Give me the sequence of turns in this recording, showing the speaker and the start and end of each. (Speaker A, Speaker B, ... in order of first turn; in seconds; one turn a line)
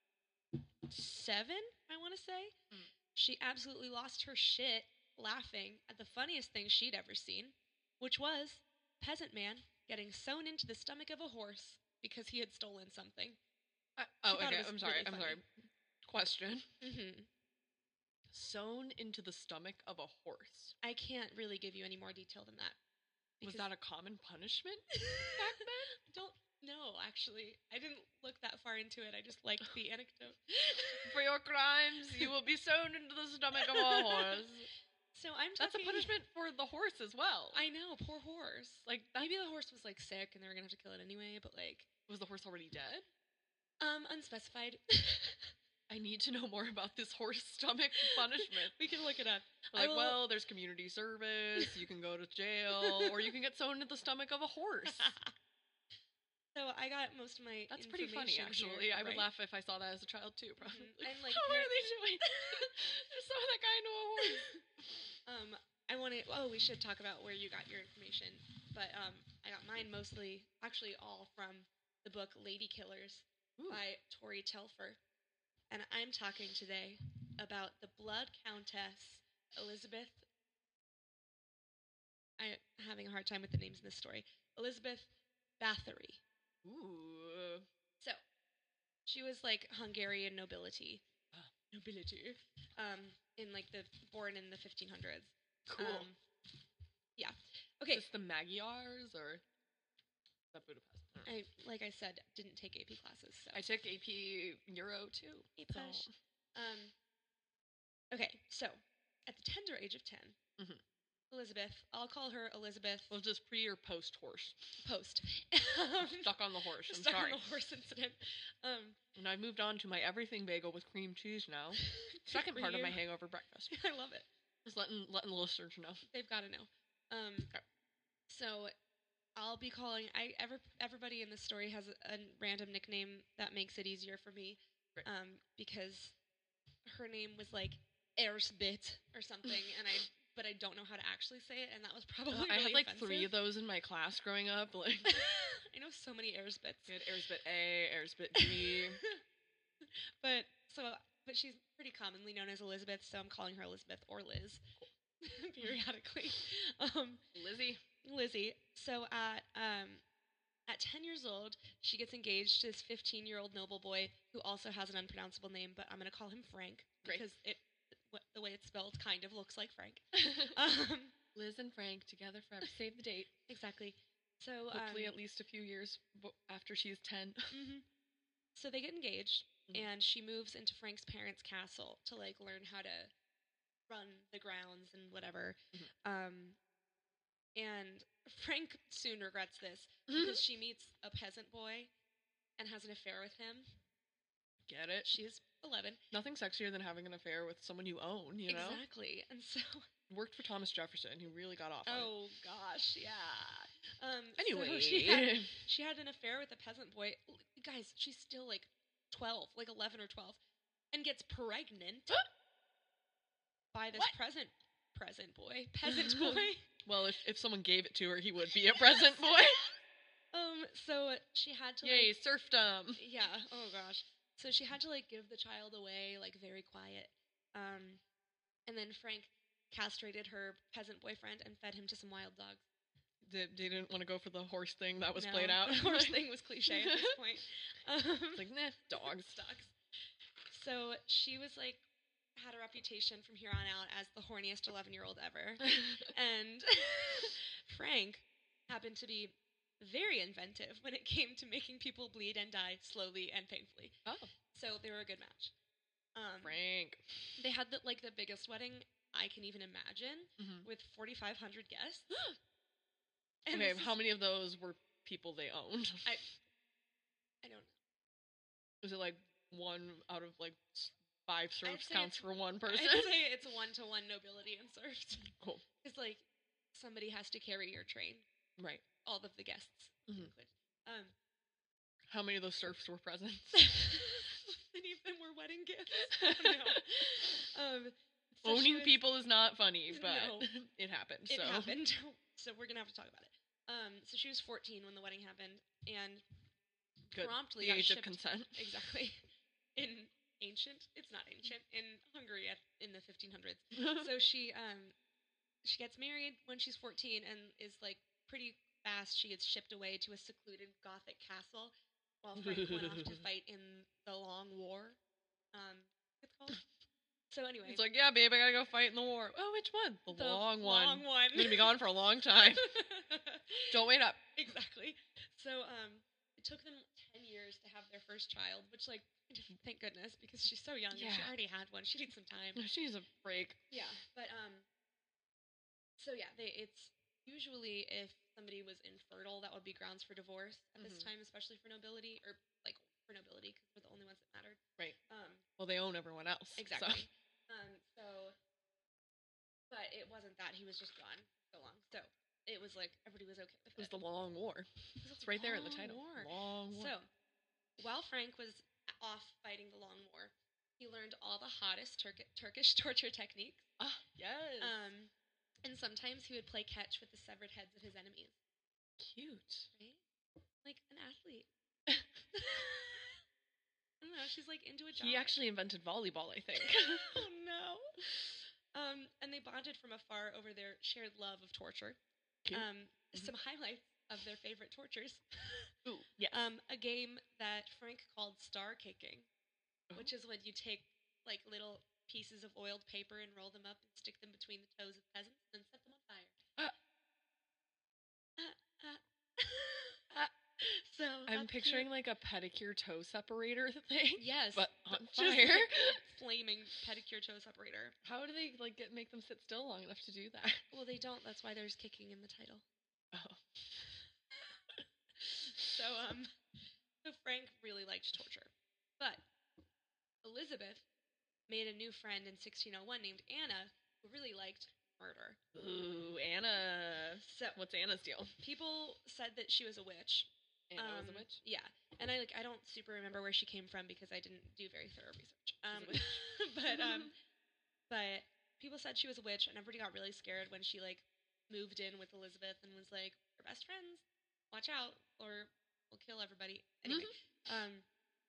Speaker A: 0.6-2.5
Speaker A: 3.1-13.4
Speaker B: 14.0-16.7
Speaker A: 14.3-15.4
Speaker A: 16.8-17.3
Speaker B: 18.3-20.7
Speaker A: 20.8-22.8
Speaker A: 23.4-23.7
Speaker B: 23.4-26.0
Speaker A: 24.9-31.2
Speaker B: 30.9-34.7
Speaker A: 33.5-34.4
Speaker A: 35.1-36.1
Speaker B: 35.6-37.6
Speaker A: 37.5-41.9
Speaker B: 38.9-39.3
Speaker B: 42.1-43.0
Speaker A: 43.8-45.5
Speaker B: 45.9-48.7
Speaker A: 48.0-50.2
Speaker B: 49.7-55.1
Speaker A: 52.8-53.3
Speaker A: 54.9-55.3
Speaker A: 56.5-59.3
Speaker B: 57.7-64.5
Speaker A: 60.6-62.7
Speaker A: 64.2-64.6
Speaker A: 65.2-75.0
Speaker B: 73.6-73.8
Speaker A: 75.7-80.2
Speaker A: 82.4-86.2
Speaker B: 86.6-87.7
Speaker A: 89.0-91.0
Speaker A: 91.7-96.2
Speaker B: 95.7-96.1
Speaker A: 97.2-98.0
Speaker B: 97.9-99.4
Speaker B: 100.5-101.3
Speaker A: 101.2-103.7
Speaker B: 103.5-106.1
Speaker A: 105.6-106.9
Speaker A: 108.1-110.4
Speaker A: 111.3-113.2
Speaker B: 113.1-114.8
Speaker A: 114.8-119.0
Speaker B: 116.0-117.4
Speaker B: 119.1-123.7
Speaker A: 121.8-123.0
Speaker A: 123.7-124.3
Speaker B: 124.6-126.0
Speaker A: 126.1-127.5
Speaker A: 128.3-128.7
Speaker A: 129.3-136.1
Speaker A: 136.8-143.3
Speaker B: 142.3-145.3
Speaker A: 145.1-147.0
Speaker B: 146.9-149.0
Speaker A: 148.3-149.2
Speaker A: 149.8-154.6
Speaker A: 155.2-157.2
Speaker B: 157.3-157.8
Speaker A: 158.0-160.0
Speaker A: 160.7-171.1
Speaker B: 170.1-170.6
Speaker B: 171.3-173.3
Speaker A: 173.5-175.2
Speaker B: 174.7-177.6
Speaker A: 177.5-177.8
Speaker A: 178.5-183.1
Speaker A: 183.9-186.6
Speaker A: 187.5-191.9
Speaker B: 190.1-190.4
Speaker A: 192.6-193.7
Speaker B: 194.7-195.2
Speaker A: 195.0-196.0
Speaker B: 196.1-198.8
Speaker A: 198.5-199.9
Speaker B: 200.1-202.1
Speaker A: 201.8-210.4
Speaker B: 204.4-205.6
Speaker A: 210.9-212.2
Speaker A: 213.7-216.7
Speaker B: 215.8-219.7
Speaker A: 218.8-219.2
Speaker A: 220.3-222.1
Speaker B: 221.8-223.0
Speaker A: 222.9-228.0
Speaker A: 228.7-232.6
Speaker B: 233.2-237.2
Speaker A: 235.2-239.7
Speaker B: 238.3-239.4
Speaker A: 240.5-241.8
Speaker A: 242.3-254.0
Speaker B: 245.8-246.0
Speaker A: 254.5-255.5
Speaker A: 256.1-256.6
Speaker B: 256.4-257.4
Speaker A: 257.4-262.1
Speaker B: 260.4-260.6
Speaker A: 263.4-264.0
Speaker B: 263.5-266.1
Speaker A: 267.4-267.7
Speaker B: 268.8-273.2
Speaker A: 271.6-278.2
Speaker B: 278.6-278.8
Speaker A: 279.0-281.1
Speaker B: 282.1-283.7
Speaker A: 283.5-289.1
Speaker B: 286.1-287.3
Speaker B: 288.4-291.7
Speaker A: 289.9-290.5
Speaker A: 291.3-296.2
Speaker A: 297.1-304.9
Speaker B: 297.1-298.7
Speaker A: 305.6-315.0
Speaker B: 312.4-313.2
Speaker A: 315.5-316.6
Speaker A: 317.3-317.8
Speaker B: 317.7-322.7
Speaker A: 320.1-321.8
Speaker A: 322.4-323.8
Speaker B: 323.7-324.2
Speaker A: 324.4-332.6
Speaker B: 330.9-331.3
Speaker B: 332.5-333.6
Speaker A: 333.7-334.7
Speaker A: 336.0-345.4
Speaker B: 340.8-341.1
Speaker B: 345.6-347.1
Speaker A: 346.6-348.3
Speaker A: 349.7-353.9
Speaker B: 353.7-356.9
Speaker A: 355.0-357.1
Speaker A: 357.8-363.7
Speaker B: 363.8-364.8
Speaker A: 364.6-365.1
Speaker A: 365.6-368.3
Speaker B: 369.0-369.7
Speaker A: 369.7-370.0
Speaker A: 370.6-371.5
Speaker A: 372.3-373.2
Speaker A: 374.0-375.4
Speaker B: 374.9-377.2
Speaker A: 376.6-382.0
Speaker B: 382.4-383.3
Speaker A: 382.5-385.7
Speaker B: 385.9-386.4
Speaker A: 386.3-389.3
Speaker A: 389.9-396.4
Speaker A: 398.4-400.1
Speaker A: 400.6-401.9
Speaker B: 401.3-406.0
Speaker A: 404.2-407.9
Speaker B: 408.0-410.7
Speaker A: 410.7-412.6
Speaker B: 413.1-413.8
Speaker A: 415.2-416.3
Speaker A: 417.0-419.2
Speaker A: 420.2-420.9
Speaker A: 421.5-425.4
Speaker B: 425.5-428.4
Speaker A: 427.2-427.6
Speaker A: 428.4-437.1
Speaker B: 430.7-431.4
Speaker B: 435.7-437.1
Speaker A: 437.9-447.9
Speaker B: 446.9-447.1